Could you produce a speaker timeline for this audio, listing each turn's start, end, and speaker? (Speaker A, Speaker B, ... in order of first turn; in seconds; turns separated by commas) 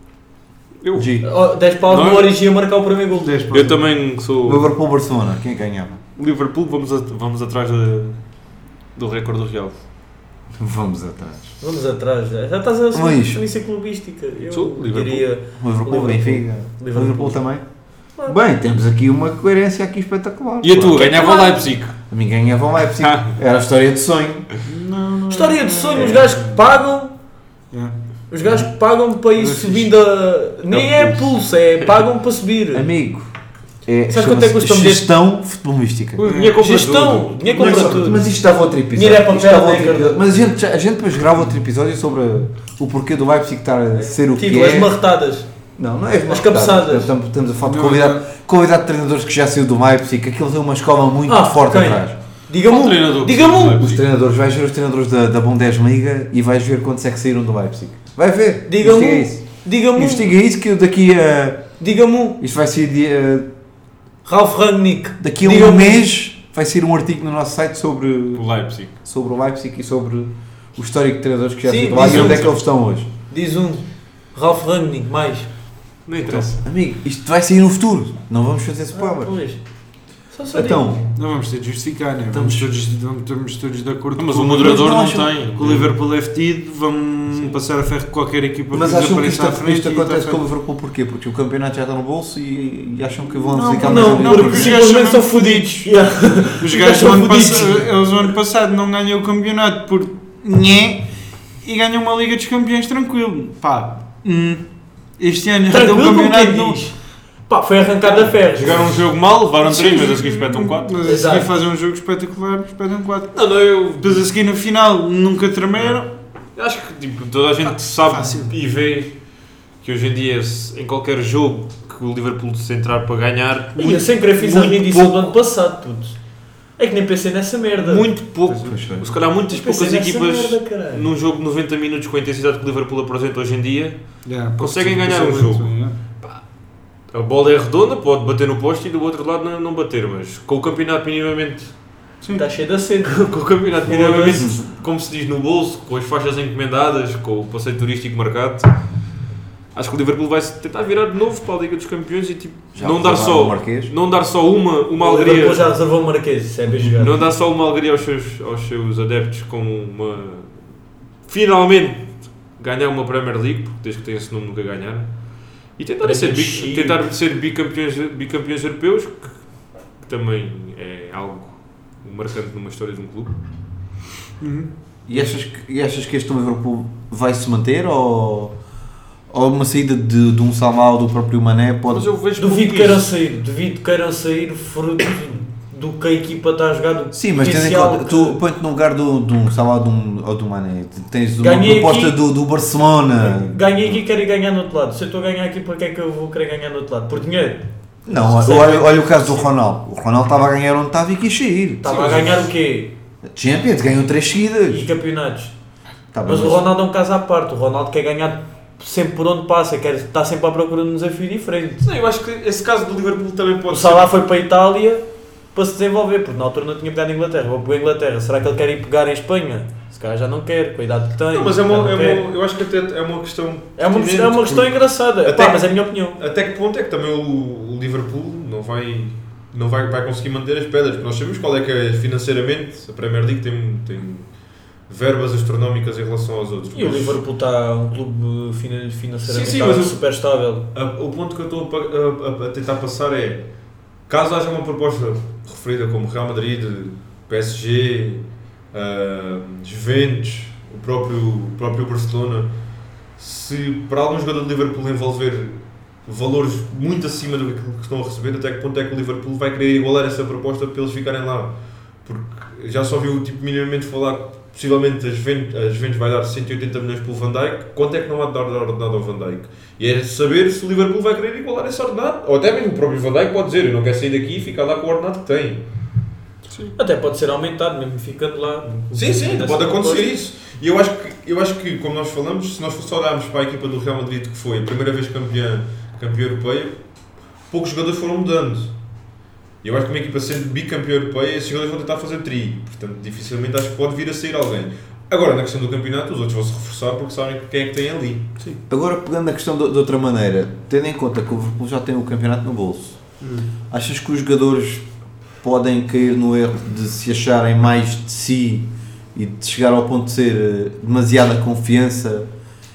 Speaker A: 0.8-1.3, Speaker B: 0.9-1.2, Speaker C: 1.2-3.4, Speaker A: 1.9-2.3, Speaker D: 3.2-3.8, Speaker A: 3.5-4.7, Speaker B: 4.4-6.0, Speaker A: 6.2-8.2, Speaker A: 8.9-9.8, Speaker B: 10.6-11.5, Speaker C: 11.6-17.4, Speaker B: 12.9-13.4, Speaker A: 14.5-15.3, Speaker B: 15.6-17.6, Speaker B: 18.3-21.1, Speaker A: 20.6-22.0, Speaker C: 20.9-21.6, Speaker B: 22.1-24.5, Speaker A: 23.0-23.3, Speaker D: 24.6-26.6, Speaker C: 25.3-27.1, Speaker B: 25.9-26.3, Speaker C: 28.3-32.9, Speaker D: 29.4-29.9, Speaker A: 30.7-31.2, Speaker B: 32.7-33.3, Speaker B: 33.9-36.2, Speaker C: 34.1-35.1, Speaker A: 36.2-38.1, Speaker D: 36.2-36.6, Speaker C: 36.5-38.3, Speaker B: 37.6-44.9, Speaker C: 38.9-40.2, Speaker C: 44.2-45.5, Speaker B: 45.8-52.2, Speaker C: 46.3-47.1, Speaker D: 47.6-48.2, Speaker C: 51.3-53.8, Speaker A: 52.6-54.0, Speaker B: 53.7-61.7, Speaker C: 58.7-60.3, Speaker C: 61.8-62.4, Speaker B: 62.4-63.5, Speaker C: 64.2-66.0, Speaker B: 65.2-68.5, Speaker A: 68.3-68.9, Speaker B: 69.0-73.1, Speaker C: 71.7-72.5, Speaker A: 72.0-72.5, Speaker C: 73.3-75.5, Speaker A: 76.1-76.6, Speaker B: 76.2-79.3, Speaker C: 78.9-79.6, Speaker C: 80.3-81.0, Speaker B: 80.5-81.0, Speaker D: 81.2-90.4, Speaker B: 82.3-82.7, Speaker A: 84.2-85.9, Speaker B: 84.6-85.3, Speaker B: 88.7-94.8, Speaker D: 93.4-95.9, Speaker C: 93.8-97.9, Speaker D: 96.6-101.1, Speaker D: 101.6-104.6, Speaker D: 105.2-106.8, Speaker C: 105.7-107.0, Speaker C: 107.5-108.9, Speaker A: 108.3-111.1, Speaker D: 109.6-113.4, Speaker C: 111.0-111.5, Speaker A: 113.3-114.3, Speaker D: 114.0-116.1, Speaker A: 115.7-116.0, Speaker A: 116.6-119.2, Speaker D: 117.7-118.6, Speaker A: 119.8-125.4, Speaker C: 123.8-126.2, Speaker C: 126.8-128.1, Speaker A: 127.8-136.4, Speaker B: 128.6-129.2, Speaker C: 129.5-131.1, Speaker D: 134.3-135.9, Speaker A: 137.1-141.7, Speaker C: 142.3-143.3, Speaker A: 143.0-148.7, Speaker C: 143.8-144.6, Speaker A: 149.7-155.7, Speaker B: 152.8-153.9, Speaker C: 155.0-157.2, Speaker A: 156.8-160.6, Speaker A: 161.3-165.1, Speaker A: 165.8-169.5, Speaker C: 166.0-167.0, Speaker A: 170.0-173.3, Speaker D: 174.4-174.7, Speaker B: 175.1-178.6, Speaker B: 179.3-182.1, Speaker A: 181.9-183.1, Speaker C: 182.4-188.4, Speaker B: 187.1-194.0, Speaker C: 191.4-192.2, Speaker C: 193.2-199.5, Speaker B: 198.1-201.8, Speaker C: 201.8-202.9, Speaker A: 201.8-202.5, Speaker B: 203.3-204.8, Speaker C: 204.7-205.5, Speaker B: 206.1-206.7, Speaker C: 206.2-211.8, Speaker A: 211.8-214.1, Speaker C: 213.7-222.2, Speaker A: 221.3-234.3, Speaker C: 223.8-226.2, Speaker A: 234.9-237.2, Speaker C: 236.7-240.7, Speaker A: 239.2-240.0, Speaker A: 240.7-243.5, Speaker A: 244.1-252.5, Speaker A: 253.2-261.5, Speaker A: 262.1-275.6, Speaker C: 276.8-280.1, Speaker A: 278.9-286.8, Speaker A: 287.5-288.7, Speaker A: 289.6-298.3, Speaker B: 298.7-303.0, Speaker D: 303.2-303.5, Speaker B: 303.7-304.9, Speaker B: 305.4-312.3